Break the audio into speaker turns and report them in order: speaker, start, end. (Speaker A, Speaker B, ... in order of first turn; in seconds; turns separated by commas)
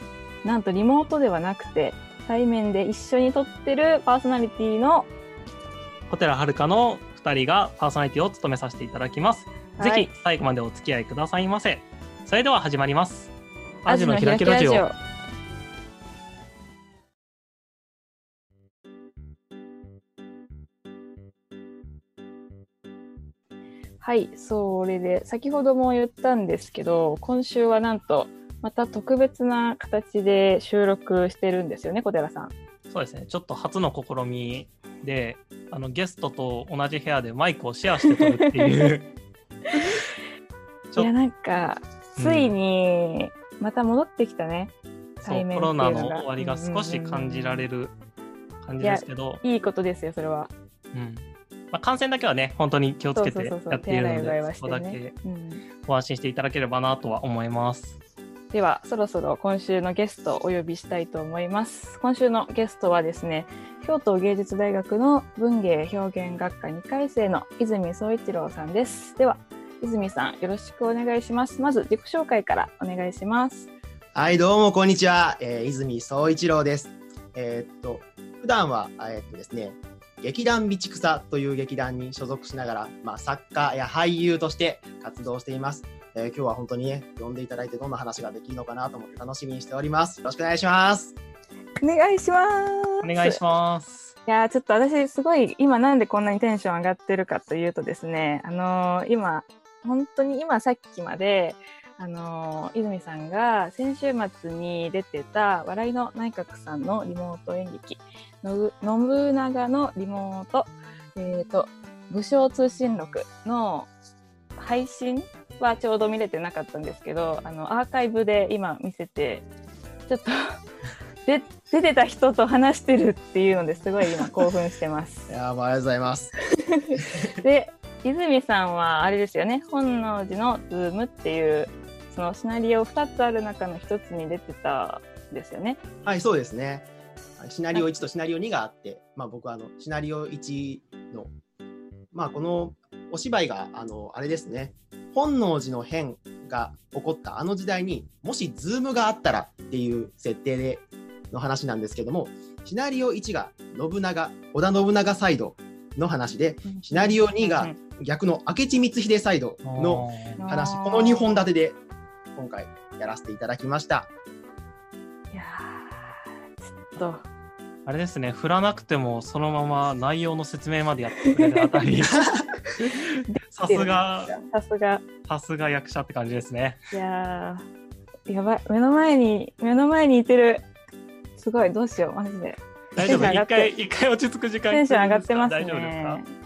Speaker A: 0.4-5.1, Speaker B: 6.1-13.3, Speaker A: 9.8-10.1, Speaker B: 13.8-14.9, Speaker A: 13.9-14.9, Speaker A: 24.0-32.5, Speaker B: 32.9-39.1, Speaker A: 38.0-38.8, Speaker A: 41.0-47.6, Speaker B: 42.2-42.5, Speaker B: 45.2-47.9, Speaker B: 48.6-49.4, Speaker A: 48.8-50.5, Speaker B: 50.9-55.1, Speaker A: 53.1-55.6, Speaker B: 55.8-58.0, Speaker A: 58.5-73.7, Speaker C: 74.1-91.2, Speaker A: 91.8-93.4, Speaker B: 93.0-94.1, Speaker A: 94.2-113.9, Speaker A: 114.6-119.5, Speaker A: 120.1-120.6, Speaker A: 121.2-125.3, Speaker C: 125.3-126.3, Speaker A: 126.7-135.8, Speaker C: 127.0-127.3, Speaker C: 136.0-136.9, Speaker C: 137.4-141.3, Speaker C: 142.1-161.8, Speaker A: 156.6-157.8, Speaker B: 159.6-160.4, Speaker A: 160.4-161.4, Speaker C: 162.3-164.1, Speaker A: 165.3-167.2, Speaker B: 167.8-174.4, Speaker A: 171.2-171.8, Speaker A: 173.3-175.0, Speaker B: 175.2-176.8, Speaker A: 176.9-177.7, Speaker A: 178.3-180.6, Speaker A: 181.4-183.7, Speaker B: 182.9-186.2, Speaker A: 184.7-186.3